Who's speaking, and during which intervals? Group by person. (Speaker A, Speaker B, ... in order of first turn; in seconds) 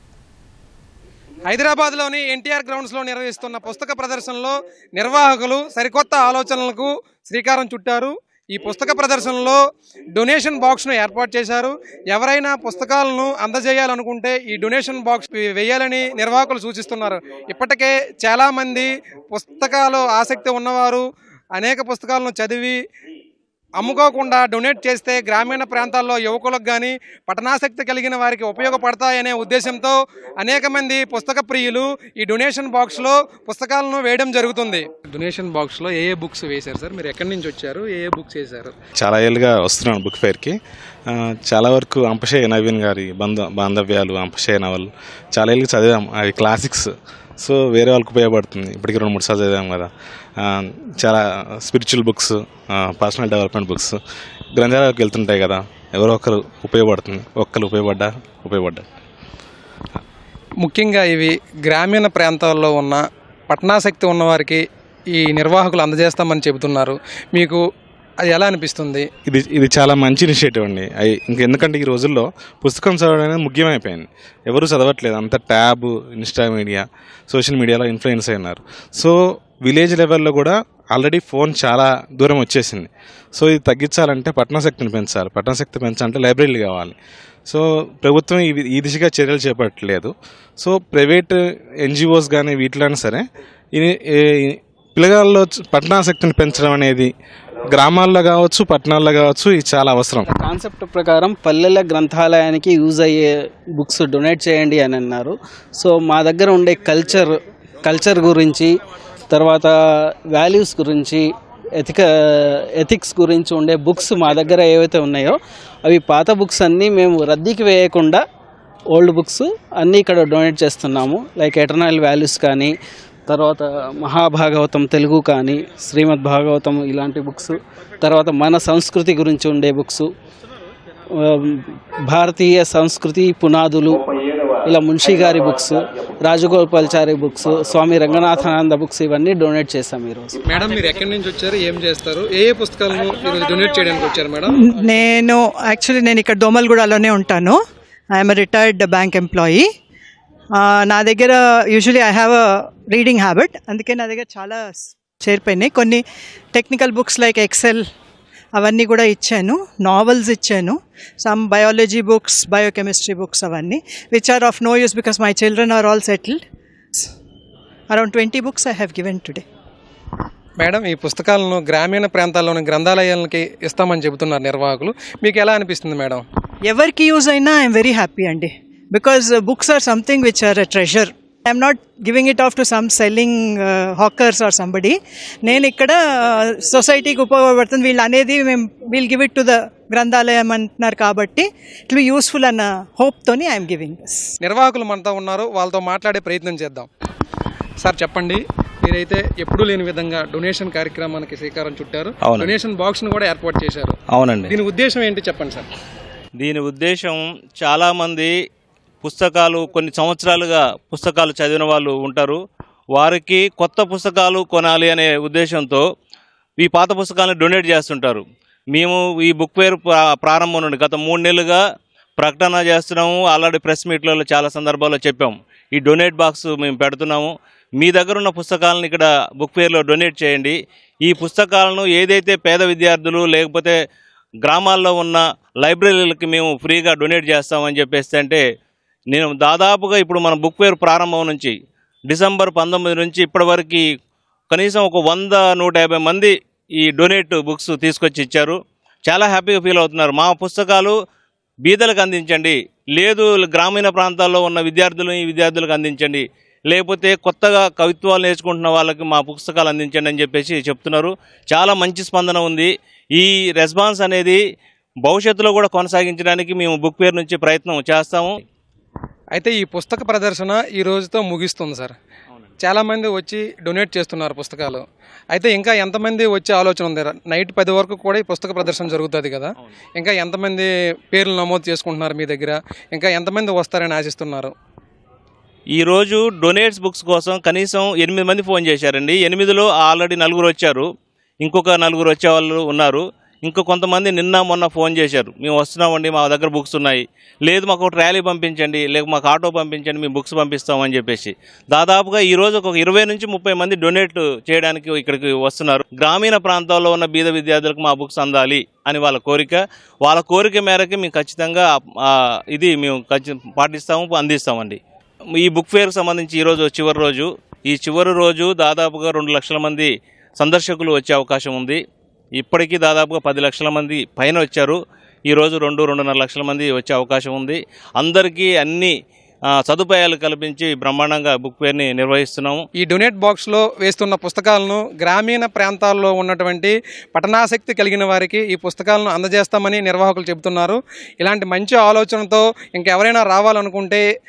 Speaker A: 1.5-9.6, 10.1-22.8, 23.8-38.7, 60.6-67.6, 68.2-69.1, 140.4-144.5, 170.6-176.2, 194.4-196.9, 197.8-203.9, 204.5-205.7, 269.3-271.9, 272.6-284.5, 332.8-344.0
Speaker B: 39.0-40.5, 41.1-46.9, 47.4-54.0, 54.5-58.8, 69.3-87.0, 87.5-97.1, 97.7-100.3
Speaker C: 100.3-108.7, 109.3-111.2, 111.8-118.2, 118.9-122.7, 123.3-130.1, 131.2-134.0, 134.6-140.4
Speaker D: 144.6-147.6, 148.1-149.7, 150.6-156.0, 156.5-157.8, 158.5-166.4, 167.9-169.4, 176.6-194.3
Speaker E: 202.2-202.5, 204.1-204.6, 206.4-208.3, 209.0-212.4, 212.9-215.8, 216.6-221.6, 222.2-233.8, 234.4-238.4, 239.1-241.5, 242.1-243.8, 244.5-250.9, 251.6-264.4, 265.0-268.4, 285.7-290.9, 291.4-314.8, 315.4-321.8, 322.4-324.8, 325.3-328.9, 329.6-332.6